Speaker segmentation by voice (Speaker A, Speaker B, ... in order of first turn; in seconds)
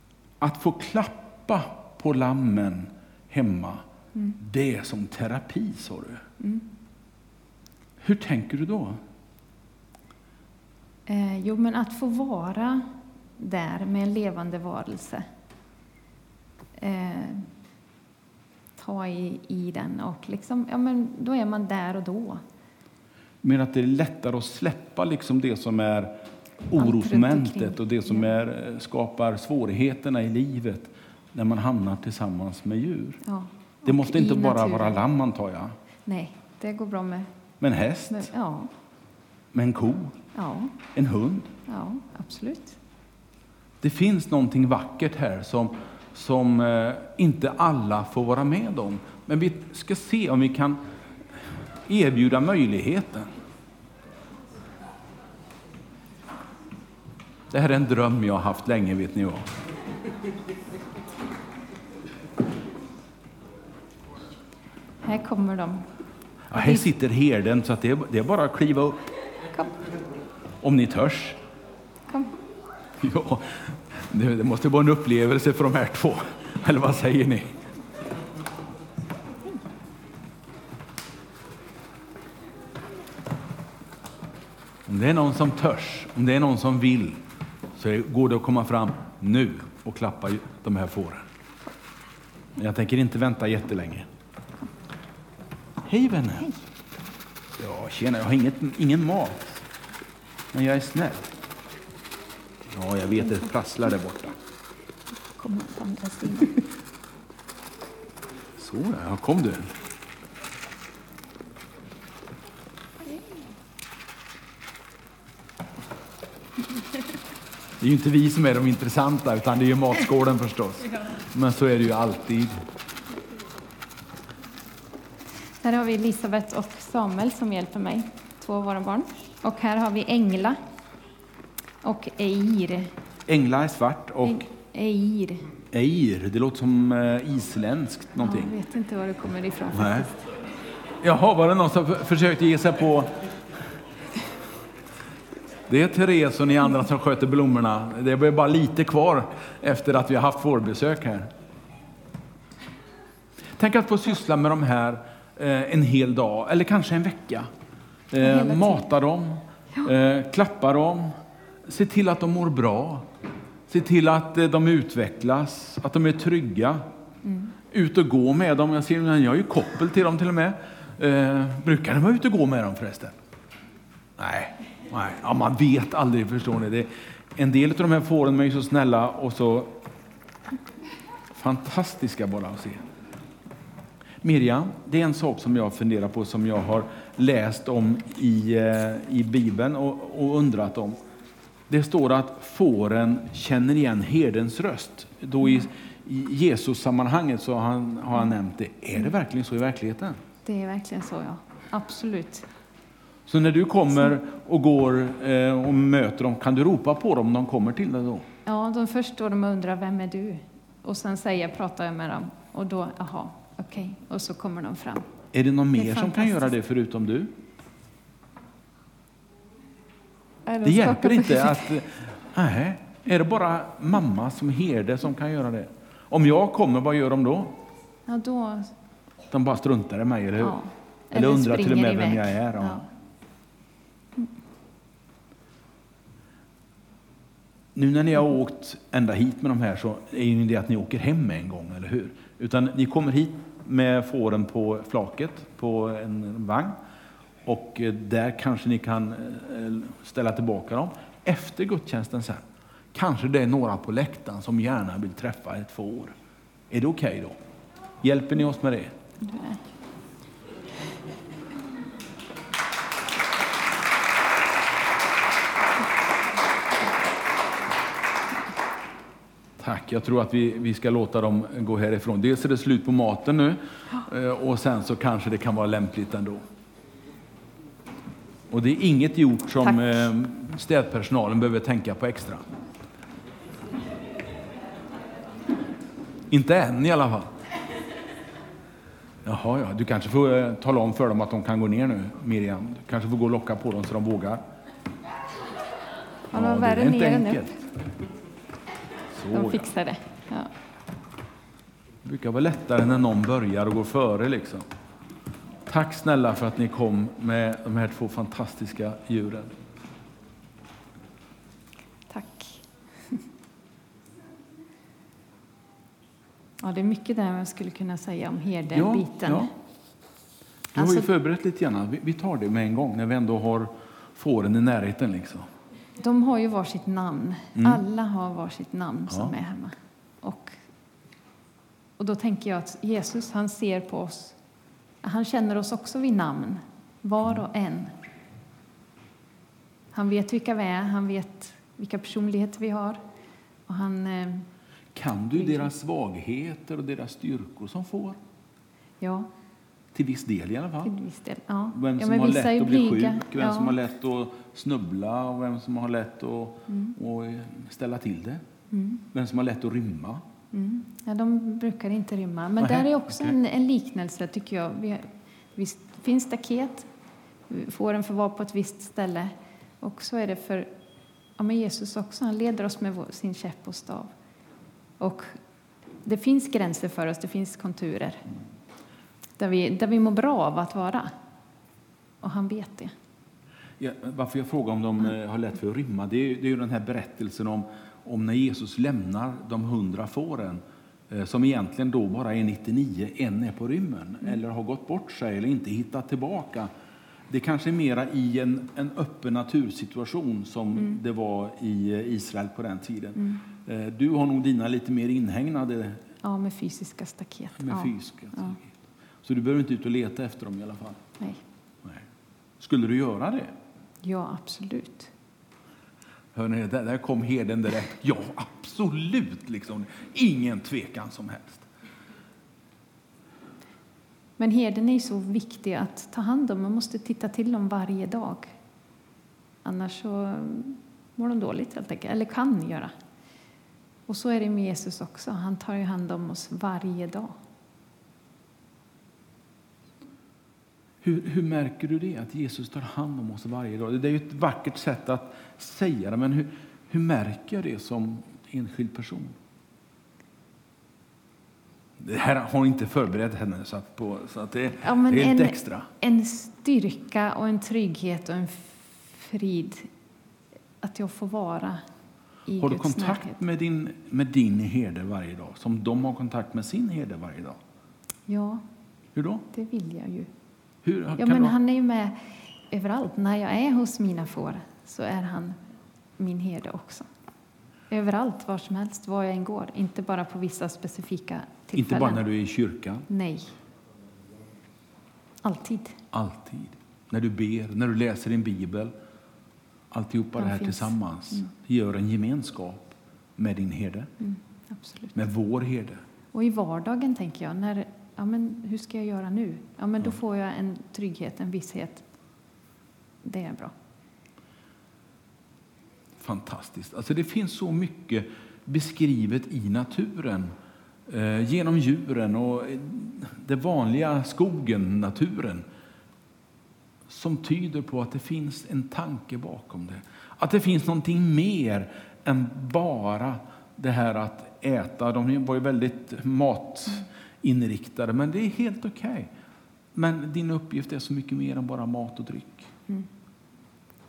Speaker A: 0.4-3.8, 4.4-6.2, 8.0-9.0, 23.4-33.2, 33.9-35.8, 37.6-38.3, 39.5-40.2, 40.9-41.5, 43.8-50.8, 51.3-53.3, 57.5-59.5, 66.5-69.0, 70.6-71.4, 73.0-77.6, 84.9-87.2, 87.8-91.3, 92.6-94.1, 95.8-96.6, 97.6-99.7, 100.5-101.3, 102.7-104.4, 108.6-109.7, 117.8-122.5, 133.3-134.5, 135.7-138.6, 139.7-140.1, 141.0-143.3, 145.7-151.3, 153.5-157.5, 158.1-163.1, 163.7-166.8, 167.7-173.2, 174.2-179.8, 181.3-182.9, 184.2-191.0, 191.7-200.2, 203.3-208.3, 215.3-217.3, 220.6-227.6, 229.3-230.6, 231.1-232.9, 237.7-246.8, 247.4-256.1, 256.7-257.4, 258.0-258.9, 269.6-276.4, 278.5-282.4, 286.3-287.4, 289.2-294.4, 296.3-297.6, 299.1-299.7, 302.0-304.6, 305.7-309.5, 318.7-319.5, 320.7-325.5, 327.6-327.8, 329.1-329.3, 344.9-348.2, 349.9-350.9, 351.7-358.4, 359.1-360.2, 362.6-363.4, 383.8-396.7, 397.3-406.0, 407.6-408.7, 409.2-411.0, 412.6-413.5, 416.3-421.7, 441.0-449.4, 452.0-455.9, 462.6-467.6, 469.1-469.5, 470.8-471.6, 481.8-483.1, 486.1-488.9, 489.9-494.1, 495.1-496.0, 506.2-510.6, 511.1-515.6, 517.1-529.3, 529.9-532.7
Speaker B: 6.4-6.7, 11.1-15.3, 16.8-17.5, 18.8-22.4, 26.8-28.3, 33.2-35.0, 36.1-37.3, 38.1-38.7, 40.4-40.8, 41.7-42.8, 65.0-65.9, 66.5-66.9, 72.1-72.4, 105.3-106.7, 125.6-130.6, 131.8-132.9, 134.2-135.5, 138.2-140.2, 158.2-158.8, 167.2-167.5, 200.4-202.5, 208.5-215.1, 215.8-216.5, 220.5-221.7, 228.1-228.7, 230.4-232.8, 259.2-259.6, 296.3-297.6, 299.3-300.5, 312.1-313.2, 316.6-319.5, 320.8-321.1, 326.0-330.6, 332.0-334.4, 335.0-337.9, 339.9-343.0, 343.7-344.5, 349.0-349.3, 350.8-353.8, 356.7-356.9, 358.7-359.0, 360.5-366.9, 367.5-370.7, 371.4-374.1, 375.0-375.4, 376.0-378.2, 379.4-381.1, 382.2-382.9, 406.2-408.6, 414.0-415.1, 424.4-428.5, 429.6-432.9, 434.1-437.4, 454.8-459.9, 460.8-461.8, 462.5-463.4, 468.3-468.6, 469.5-470.3, 471.2-475.6, 476.2-477.1, 477.9-482.3, 483.1-483.6, 485.4-486.0, 490.4-491.5, 494.2-495.2, 496.3-502.1, 503.2-503.7